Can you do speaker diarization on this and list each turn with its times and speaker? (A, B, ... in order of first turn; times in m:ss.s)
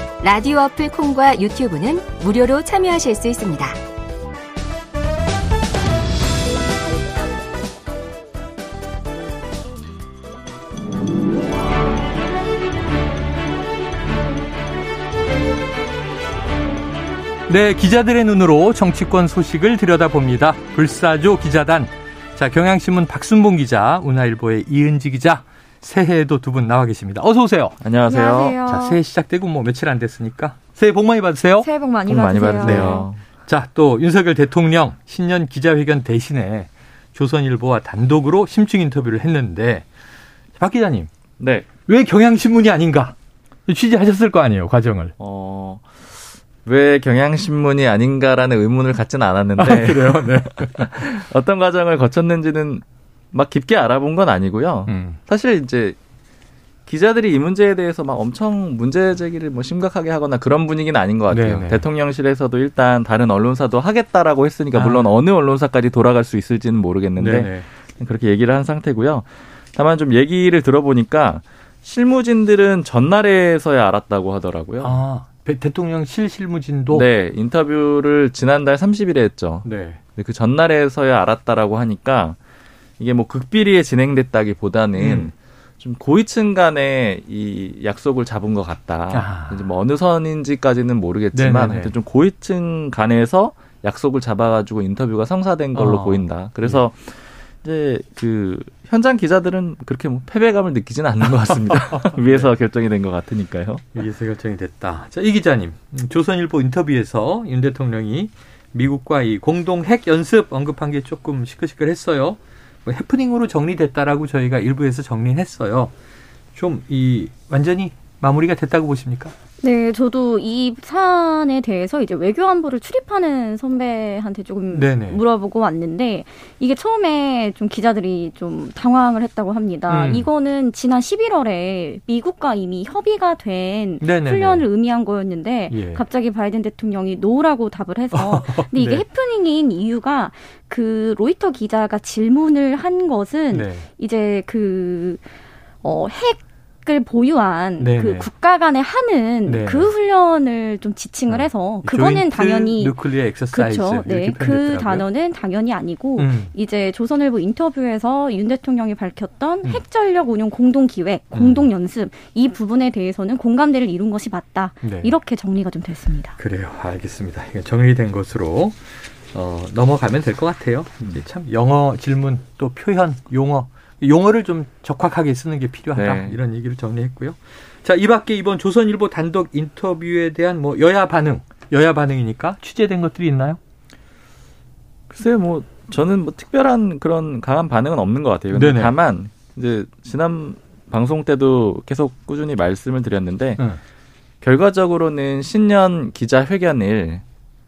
0:00.2-0:03.8 A
0:17.5-0:27.8 B
0:27.8-0:28.6 C
0:28.1-0:29.0 D
0:28.6-0:31.7 B
0:31.6-0:33.1 D
0:32.1-0:33.2 C
0:32.6-0:39.9 B
0:40.6-0:41.1 B
0:41.4-0:41.7 C
0:41.8-0:43.2 B
0:43.7-0:45.1 B
0:45.2-0:46.0 C
0:46.6-0:56.0 C
0:49.6-0:50.9 B
0:54.9-0:55.2 B
0:56.9-1:15.0 C
1:01.3-1:01.8 B
1:04.7-1:05.1 B
1:07.2-1:07.7 B
1:14.8-1:17.1 B
1:16.9-1:22.4 C
1:19.6-1:20.0 B
1:23.0-1:43.9 C
1:25.0-1:25.3 B
1:29.1-1:29.7 B
1:31.3-1:31.9 B
1:35.7-1:36.8 B
1:41.9-1:42.5 B
1:44.0-1:55.9 B
1:56.6-1:59.3 B
1:59.6-2:25.2 D
2:04.7-2:05.2 B
2:09.9-2:10.3 B
2:14.0-2:14.7 B
2:15.7-2:16.0 B
2:18.1-2:19.0 B
2:23.5-2:23.9 B
2:25.8-2:33.0 D
2:27.8-2:28.3 B
2:29.5-2:29.9 B
2:31.3-2:35.1 B
2:33.5-2:46.4 D
2:36.2-2:36.5 B
2:41.3-2:41.7 B
2:44.8-2:45.2 B
2:46.4-3:03.6 B
2:56.0-2:56.4 C
3:05.1-3:13.6 C
3:08.5-3:09.0 B
3:14.4-3:17.2 C